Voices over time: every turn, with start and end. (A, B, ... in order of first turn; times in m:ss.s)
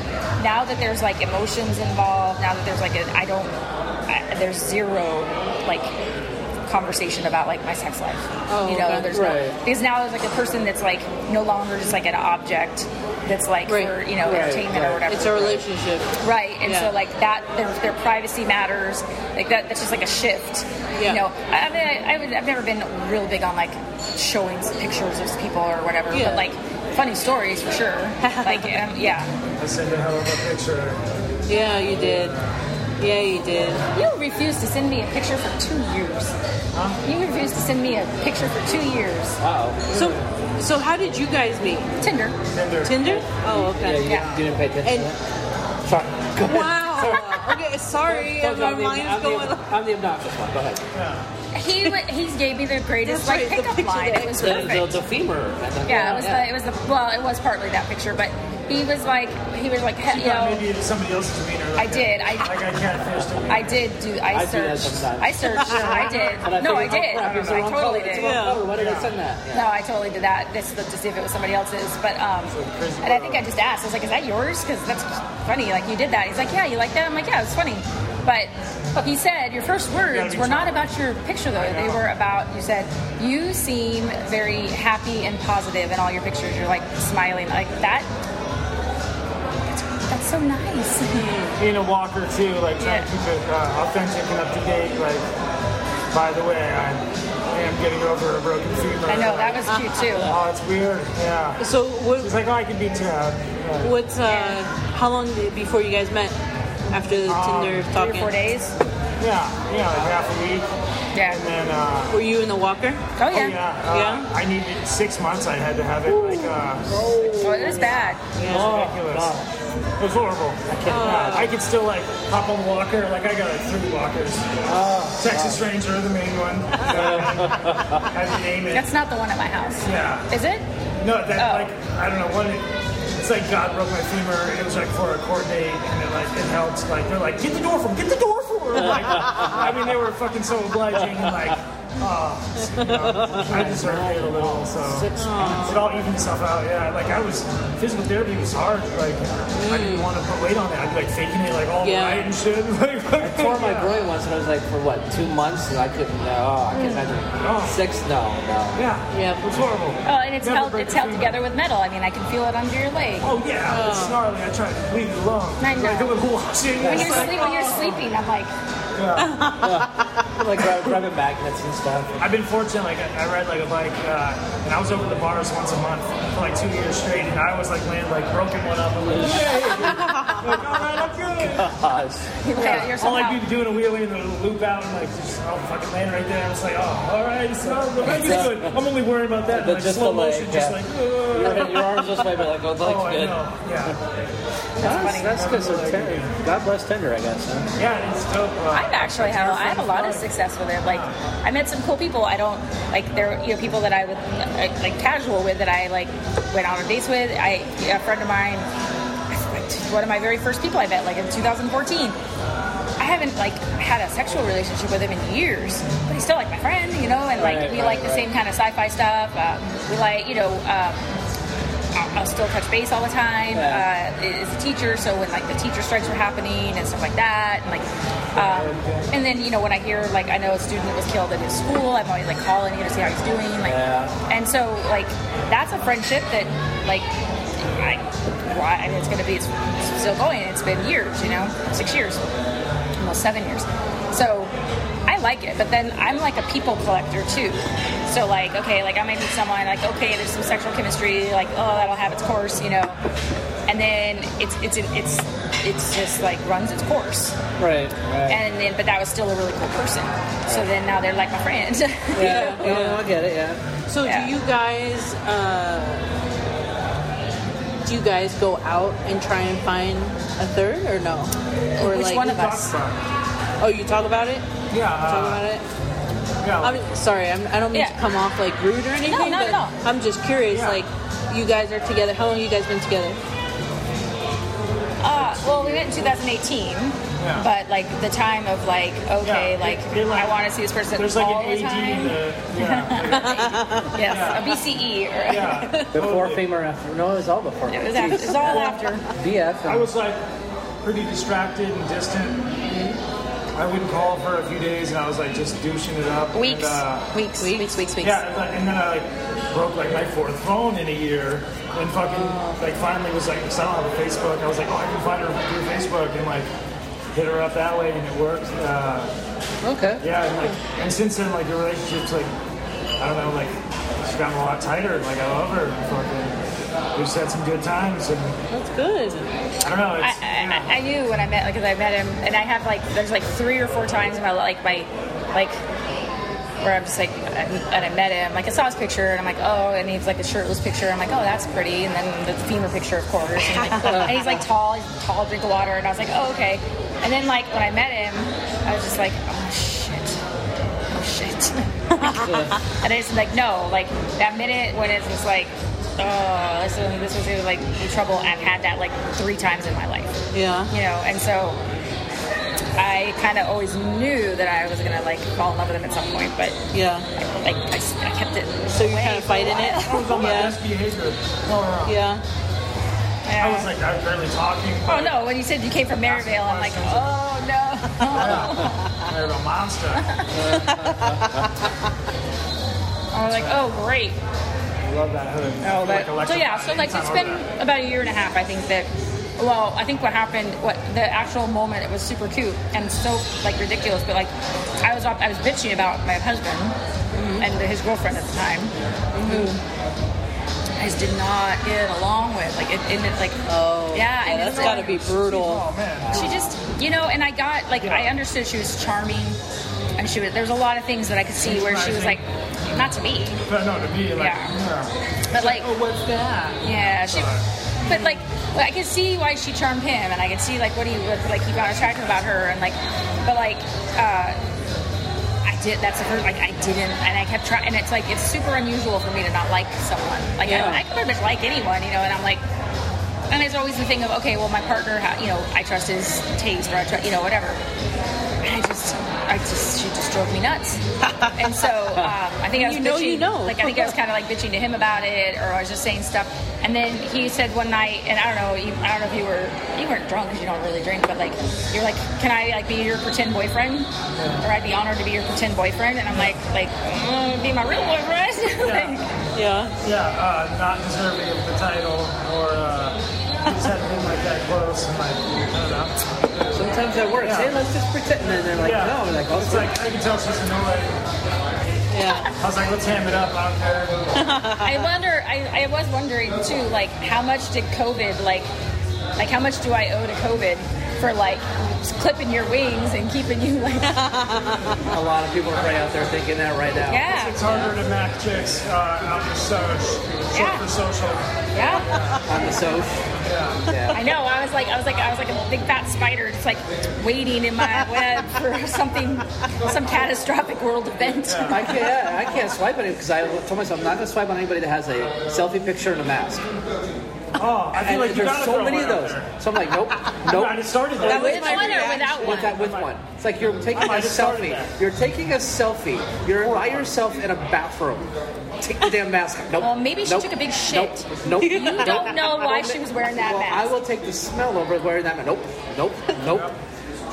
0:00.4-0:03.6 A
0:04.1-0:06.0 A
0:06.7-0:15.6 A
0:08.5-0:09.1 B
0:09.1-0:09.6 C
0:13.7-0:14.0 B
0:14.2-0:15.6 C
0:15.1-0:16.1 B
0:16.2-0:29.3 A
0:16.6-0:16.9 B
0:21.0-0:21.2 B
0:26.1-0:26.5 B
0:28.2-0:28.8 B
0:29.6-0:31.0 D
0:31.5-0:32.4 B
0:31.8-0:32.6 D
0:33.0-0:33.8 B
0:33.9-0:36.4 A
0:36.7-0:37.0 D
0:37.0-0:39.4 A
0:39.4-0:39.9 C
0:39.9-0:40.2 D
0:39.9-0:41.9 B
0:42.0-0:42.4 A
0:42.5-0:43.2 D
0:42.8-0:44.1 B
0:43.1-0:45.2 C
0:44.0-0:44.4 A
0:44.1-0:44.4 D
0:44.8-0:45.1 B
0:45.8-0:50.8 C
0:46.4-0:49.6 B
0:50.9-0:51.3 D
0:51.5-0:55.0 A
0:53.0-0:54.8 B
0:54.4-0:56.5 C
0:55.9-1:00.6 A
1:00.1-1:03.8 D
1:01.8-1:02.6 A
1:03.5-1:08.4 A
1:04.3-1:09.7 C
1:05.6-1:05.9 B
1:05.9-1:06.4 D
1:07.1-1:07.7 D
1:08.2-1:08.7 B
1:08.7-1:09.1 D
1:09.5-1:28.1 A
1:12.5-1:13.5 D
1:20.0-1:20.9 D
1:21.5-1:22.0 D
1:29.7-1:31.3 A
1:31.1-1:31.6 B
1:31.6-1:35.3 D
1:32.8-1:33.1 A
1:36.1-1:39.6 D
1:39.1-1:40.4 A
1:39.7-1:40.3 B
1:40.2-1:41.6 D
1:41.6-1:42.3 B
1:42.2-1:43.9 D
1:43.8-1:46.4 B
1:44.3-1:44.6 A
1:46.9-1:48.4 B
1:47.2-1:47.9 D
1:47.9-1:48.8 A
1:49.2-1:50.7 D
1:51.1-1:51.4 A
1:51.2-1:52.2 D
1:52.1-1:53.1 B
1:53.2-1:53.6 A
1:53.3-1:57.0 D
1:53.9-1:54.3 B
1:56.1-1:59.5 C
1:57.4-1:58.2 A
1:58.3-1:58.7 B
1:58.4-1:59.4 D
2:00.0-2:08.9 D
2:00.7-2:01.4 C
2:00.9-2:01.6 B
2:04.6-2:05.6 C
2:06.8-2:08.1 C
2:08.7-2:10.6 A
2:09.8-2:10.3 D
2:11.0-2:33.9 D
2:11.4-2:11.7 A
2:18.8-2:19.2 B
2:18.9-2:19.8 C
2:21.0-2:21.5 C
2:22.8-2:23.8 B
2:23.3-2:25.9 C
2:25.2-2:25.9 B
2:29.6-2:30.1 B
2:31.8-2:32.3 B
2:33.2-2:38.8 C
2:36.7-2:37.1 A
2:37.4-2:37.8 D
2:38.8-2:41.4 D
2:39.1-2:39.6 B
2:40.0-2:43.3 A
2:43.2-2:48.0 D
2:43.7-2:44.2 B
2:45.6-2:46.2 A
2:46.8-2:47.4 C
2:46.8-2:48.5 A
2:49.0-2:49.4 D
2:49.2-2:50.2 B
2:49.6-2:52.2 C
2:50.6-2:51.0 D
2:52.2-3:01.8 D
2:59.0-3:00.1 C
2:59.8-3:00.5 B
3:01.4-3:02.9 C
3:02.4-3:03.4 A
3:02.6-3:12.0 D
3:08.0-3:08.8 C
3:09.5-3:14.0 C
3:12.8-3:14.0 D
3:14.8-3:15.4 A
3:14.8-3:17.7 C
3:14.8-3:16.3 D
3:17.8-3:20.3 D
3:18.7-3:28.7 A
3:20.8-3:21.2 D
3:29.3-3:32.2 A
3:33.0-3:41.1 A
3:37.4-3:38.3 C
3:41.9-3:57.1 A
3:43.5-3:43.9 C
3:48.4-3:49.0 C
3:48.5-3:48.9 D
3:53.6-3:54.2 C
3:57.6-4:02.2 A
4:03.0-4:04.5 A
4:05.1-4:13.0 A
4:13.7-4:17.4 A
4:17.6-4:18.4 C
4:18.3-4:22.6 A
4:22.1-4:23.6 C
4:22.2-4:23.0 B
4:23.9-4:26.0 B
4:24.0-4:24.3 A
4:27.8-4:32.4 B
4:31.8-4:32.7 A
4:32.2-4:33.0 D
4:33.6-4:34.5 B
4:34.7-4:35.4 D
4:35.0-4:35.6 B
4:36.4-4:36.8 D
4:36.6-4:43.2 B
4:37.7-4:38.0 A
4:39.0-4:39.8 A
4:40.5-4:40.8 D
4:45.0-4:55.8 A
4:45.1-4:46.0 D
4:47.2-4:47.5 D
4:49.2-4:54.4 D
4:53.1-4:54.4 B
4:55.3-4:56.4 D
4:55.5-4:55.9 B
4:55.9-4:59.9 C
4:57.7-4:59.0 A
4:58.0-4:58.8 B
4:59.6-5:00.2 D
5:00.8-5:02.6 D
5:02.7-5:03.0 B
5:03.5-5:07.1 D
5:06.3-5:08.2 A
5:07.4-5:08.0 B
5:08.0-5:16.5 D
5:12.0-5:12.6 B
5:17.1-5:19.1 D
5:19.6-5:20.0 C
5:20.0-5:22.3 D
5:23.0-5:26.4 D
5:27.0-5:28.4 D
5:28.5-5:29.3 B
5:29.6-5:30.8 D
5:30.0-5:35.6 A
5:36.6-5:50.2 A
5:43.4-5:44.4 B
5:43.8-5:44.3 C
5:50.9-5:51.7 A
5:52.0-5:52.6 B
5:52.0-5:52.6 C
5:52.8-6:00.2 A
6:00.3-6:00.7 B
6:00.7-6:01.6 A
6:02.8-6:06.6 A
6:06.7-6:07.1 B
6:07.2-6:10.5 A
6:08.7-6:10.6 B
6:09.8-6:12.0 D
6:11.8-6:12.2 B
6:13.2-6:13.7 A
6:13.4-6:15.2 D
6:14.9-6:18.8 A
6:16.0-6:17.2 D
6:18.1-6:20.2 D
6:20.3-6:21.5 C
6:20.5-6:21.5 B
6:23.1-6:24.2 A
6:23.3-6:23.7 D
6:24.8-6:27.4 D
6:25.6-6:36.8 A
6:37.1-6:37.5 B
6:37.4-6:38.7 A
6:39.1-6:39.5 B
6:39.2-6:39.6 A
6:40.8-6:43.4 A
6:43.5-6:45.7 B
6:43.9-6:44.9 A
6:44.3-6:46.4 D
6:46.0-6:46.5 C
6:46.1-6:49.4 A
6:47.8-6:48.1 D
6:50.0-6:53.4 A
6:51.4-6:52.2 D
6:53.5-6:57.5 D
6:54.2-6:54.5 A
6:55.3-6:55.7 A
6:56.6-6:57.3 A
6:57.8-7:04.4 A
6:57.9-6:58.2 B
7:05.4-7:12.4 A
7:10.4-7:10.8 B
7:13.3-7:17.6 A
7:18.4-7:20.8 A
7:21.3-7:33.9 A
7:22.5-7:24.0 B
7:34.2-7:34.4 D
7:34.4-7:39.1 A
7:38.6-7:39.0 D
7:39.3-7:39.7 B
7:39.8-7:46.0 D
7:46.5-7:49.8 C
7:47.2-7:47.5 D
7:48.6-7:51.0 D
7:51.9-7:52.3 B
7:52.0-7:52.3 A
7:52.4-7:54.0 D
7:54.2-7:54.9 B
7:54.6-7:58.5 A
7:59.2-8:04.0 A
8:03.9-8:04.8 B
8:04.9-8:07.1 C
8:06.9-8:07.6 A
8:07.0-8:12.3 D
8:10.3-8:10.6 A
8:11.5-8:11.9 A
8:11.6-8:13.0 C
8:13.2-8:13.7 D
8:13.6-8:14.1 C
8:13.9-8:21.8 A
8:21.2-8:21.7 D
8:21.5-8:26.5 C
8:27.4-8:29.3 D
8:27.7-8:31.3 C
8:30.2-8:32.9 D
8:31.0-8:32.5 B
8:31.0-8:32.6 A
8:32.1-8:46.5 C
8:33.7-8:34.7 D
8:36.4-8:36.9 D
8:39.6-8:43.8 A
8:41.4-8:42.2 B
8:46.2-8:46.6 D